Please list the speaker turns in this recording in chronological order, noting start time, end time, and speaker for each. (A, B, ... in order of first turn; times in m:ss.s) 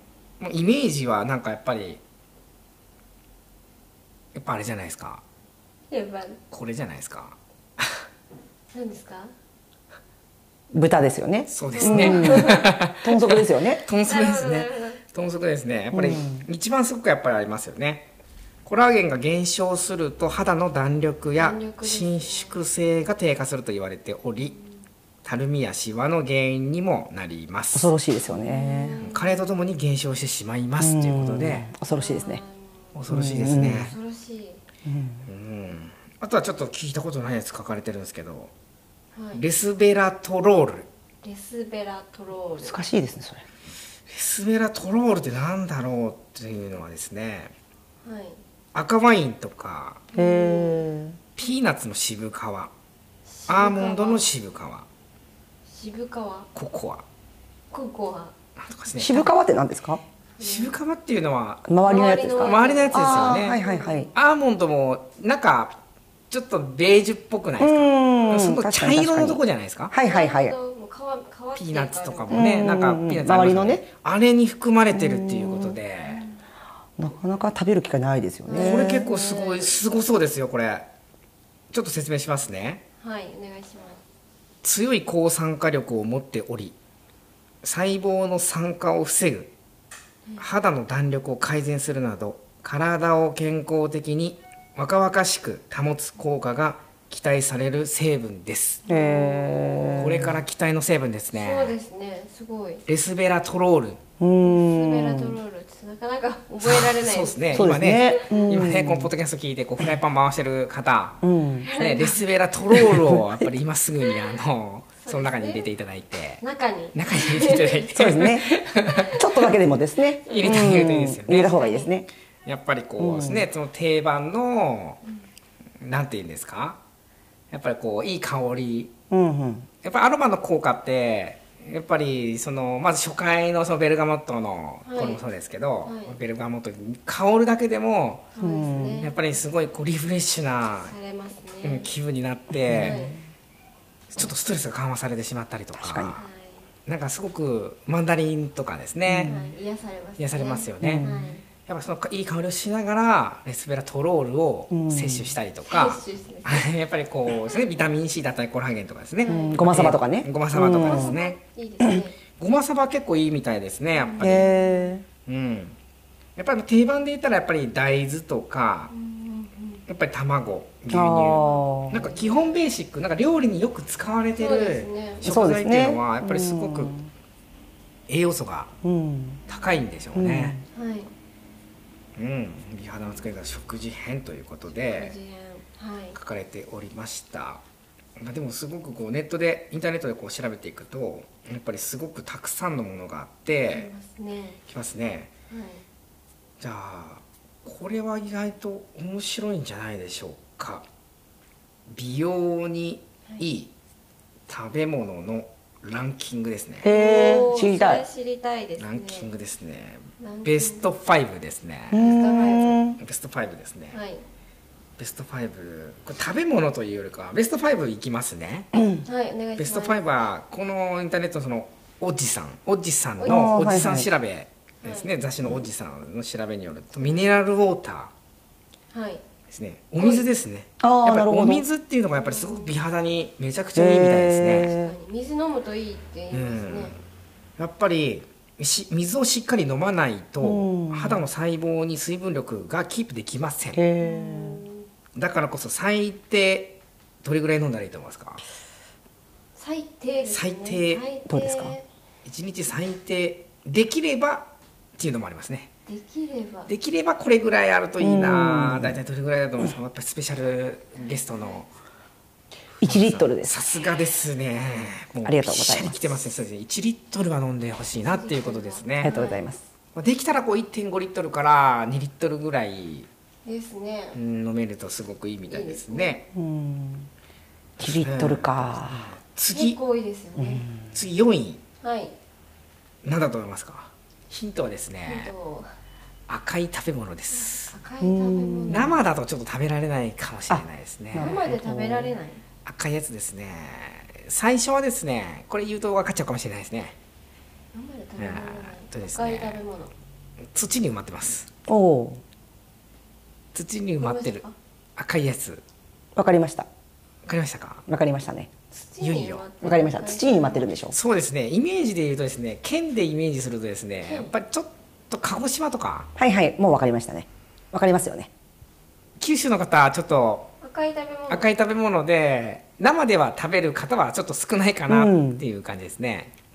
0:00.4-0:02.0 A
0:04.3-0:05.2 A
0:05.9-0:06.4 B
0:06.5-0:08.0 A
0:08.7-0:09.3 B
0:10.7-0:13.8 C
0:11.5-0:18.1 A
0:11.7-0:12.7 B
0:14.1-0:15.0 B
0:15.9-0:16.4 C
0:18.6-0:24.6 A
0:21.4-0:22.6 B
0:24.4-0:24.7 B
0:25.2-0:27.9 A
0:27.7-0:29.0 C
0:28.2-0:29.5 B
0:29.0-0:31.7 A
0:30.8-0:32.4 C
0:31.9-0:33.0 B
0:33.0-0:33.9 A
0:33.1-0:33.9 C
0:33.7-0:34.6 B
0:34.9-0:35.3 C
0:35.3-0:38.5 A
0:39.1-0:39.4 B
0:39.4-0:40.9 A
0:41.2-0:42.8 B
0:42.6-0:43.4 C
0:44.1-0:47.5 A
0:48.0-0:48.4 B
0:48.7-0:50.0 A
0:50.1-0:50.9 B
0:50.1-0:51.2 C
0:51.4-0:52.7 A
0:53.3-0:54.3 B
0:53.5-0:54.9 A
0:55.7-0:56.5 B
0:56.6-0:57.0 A
0:57.7-0:58.4 B
0:58.6-0:59.3 A
0:59.0-1:00.0 C
1:00.4-1:00.8 B
1:00.4-1:01.7 A
1:01.7-1:04.1 C
1:01.8-1:04.1 B
1:02.4-1:03.6 A
1:04.1-1:05.8 A
1:06.3-1:09.9 A
1:07.6-1:10.6 C
1:10.0-1:12.5 B
1:11.6-1:16.2 A
1:12.3-1:13.8 C
1:14.9-1:15.8 C
1:17.0-1:19.1 C
1:18.4-1:19.7 B
1:18.5-1:20.9 A
1:21.7-1:22.8 A
1:23.0-1:24.0 B
1:24.6-1:26.8 A
1:27.6-1:29.5 A
1:30.4-1:38.8 A
1:38.9-1:39.9 B
1:38.9-1:40.4 C
1:39.8-1:41.8 A
1:41.3-1:42.8 B
1:42.9-1:44.0 A
1:44.2-1:45.4 C
1:44.4-1:48.6 B
1:46.6-1:51.2 A
1:47.5-1:49.1 C
1:51.2-1:51.7 C
1:51.6-1:52.2 B
1:51.8-1:56.4 A
1:52.7-1:53.4 C
1:55.0-1:55.7 B
1:56.4-1:58.2 B
1:56.9-1:59.2 A
1:58.0-1:58.5 C
1:58.8-1:59.2 B
1:59.1-2:02.1 C
2:00.3-2:00.8 B
2:00.3-2:01.6 A
2:01.4-2:01.9 B
2:02.4-2:05.0 A
2:03.0-2:03.5 C
2:05.8-2:06.8 A
2:07.5-2:08.9 A
2:09.1-2:09.7 C
2:09.8-2:18.3 A
2:14.8-2:15.2 B
2:15.8-2:16.2 B
2:18.4-2:19.1 B
2:18.4-2:19.0 C
2:19.0-2:20.9 A
2:20.8-2:21.9 B
2:21.6-2:23.1 A
2:22.5-2:23.2 C
2:22.7-2:23.2 B
2:24.1-2:26.2 A
2:25.8-2:26.2 C
2:26.2-2:26.7 B
2:26.9-2:29.4 A
2:29.0-2:29.5 C
2:29.2-2:31.4 B
2:30.2-2:41.4 A
2:30.8-2:31.3 C
2:34.7-2:35.3 C
2:35.7-2:36.7 B
2:39.2-2:39.7 B
2:39.2-2:41.1 C
2:40.8-2:42.2 B
2:42.4-2:44.5 A
2:43.9-2:44.9 B
2:44.2-2:45.0 C
2:45.3-2:45.8 A
2:46.4-2:48.9 A
2:48.9-2:49.8 B
2:49.9-2:57.0 A
2:50.9-2:52.1 C
2:51.3-2:52.3 B
2:54.4-2:55.3 B
2:55.2-2:57.1 C
2:58.1-2:58.7 A
2:58.8-2:59.4 C
2:59.5-3:00.6 A
3:00.2-3:00.6 C
3:00.7-3:01.1 B
3:02.2-3:05.2 A
3:04.7-3:06.2 B
3:06.2-3:07.6 A
3:08.2-3:13.9 A
3:13.7-3:14.6 B
3:14.7-3:15.3 A
3:15.5-3:15.8 B
3:16.6-3:20.8 A
3:21.9-3:23.7 A
3:24.5-3:26.9 A
3:26.8-3:28.0 C
3:26.8-3:29.3 B
3:28.8-3:32.1 A
3:30.2-3:30.9 B
3:31.9-3:33.0 C
3:31.9-3:32.8 B
3:33.0-3:34.0 A
3:33.9-3:34.2 B
3:35.0-3:38.7 A
3:39.0-3:40.0 B
3:39.6-3:48.1 A
3:43.2-3:43.6 B
3:43.3-3:44.1 C
3:44.8-3:45.1 B
3:48.9-3:49.2 B
3:49.5-3:54.8 A
3:50.0-3:50.3 B
3:50.8-3:51.6 C
3:52.2-3:52.8 B
3:53.8-3:54.9 C
3:54.7-3:56.9 B
3:56.3-3:57.0 A
3:57.6-4:03.8 A
4:00.4-4:01.2 C
4:03.7-4:04.6 C
4:04.0-4:04.9 B
4:05.2-4:08.4 A
4:09.6-4:11.9 B
4:10.3-4:11.0 A
4:11.3-4:11.7 C
4:12.2-4:15.7 A
4:15.9-4:16.7 B
4:16.7-4:21.7 A
4:18.0-4:19.0 C
4:21.0-4:21.5 B
4:22.8-4:23.6 C
4:22.8-4:29.1 A
4:25.2-4:26.2 C
4:28.0-4:29.5 B
4:29.0-4:29.6 C
4:30.0-4:33.1 A
4:33.5-4:34.2 B
4:34.2-4:36.3 A
4:35.5-4:36.2 B
4:36.3-4:37.1 C
4:37.8-4:39.1 C
4:37.8-4:39.8 A
4:39.5-4:40.7 B
4:40.4-4:40.8 C
4:40.9-4:41.6 A
4:41.8-4:42.1 B
4:43.0-4:45.3 A
4:45.1-4:45.7 B
4:46.3-4:47.8 A
4:47.3-4:49.0 B
4:48.0-4:48.9 C
4:48.7-4:51.4 A
4:50.5-4:52.1 C
4:51.2-4:52.4 B
4:52.6-4:57.0 A
4:57.7-4:59.9 B
4:58.2-4:59.6 A
5:00.5-5:01.5 A
5:01.7-5:02.2 C
5:03.5-5:04.4 A
5:04.0-5:04.5 B
5:05.0-5:05.6 A
5:06.2-5:06.7 C
5:07.3-5:07.8 A
5:07.9-5:08.5 C
5:08.7-5:10.8 B
5:09.0-5:09.4 A
5:09.6-5:11.0 C
5:10.9-5:16.1 A
5:14.0-5:14.3 B
5:16.2-5:18.3 C
5:19.2-5:20.5 A
5:20.6-5:21.5 B
5:21.3-5:26.3 A
5:24.9-5:25.4 C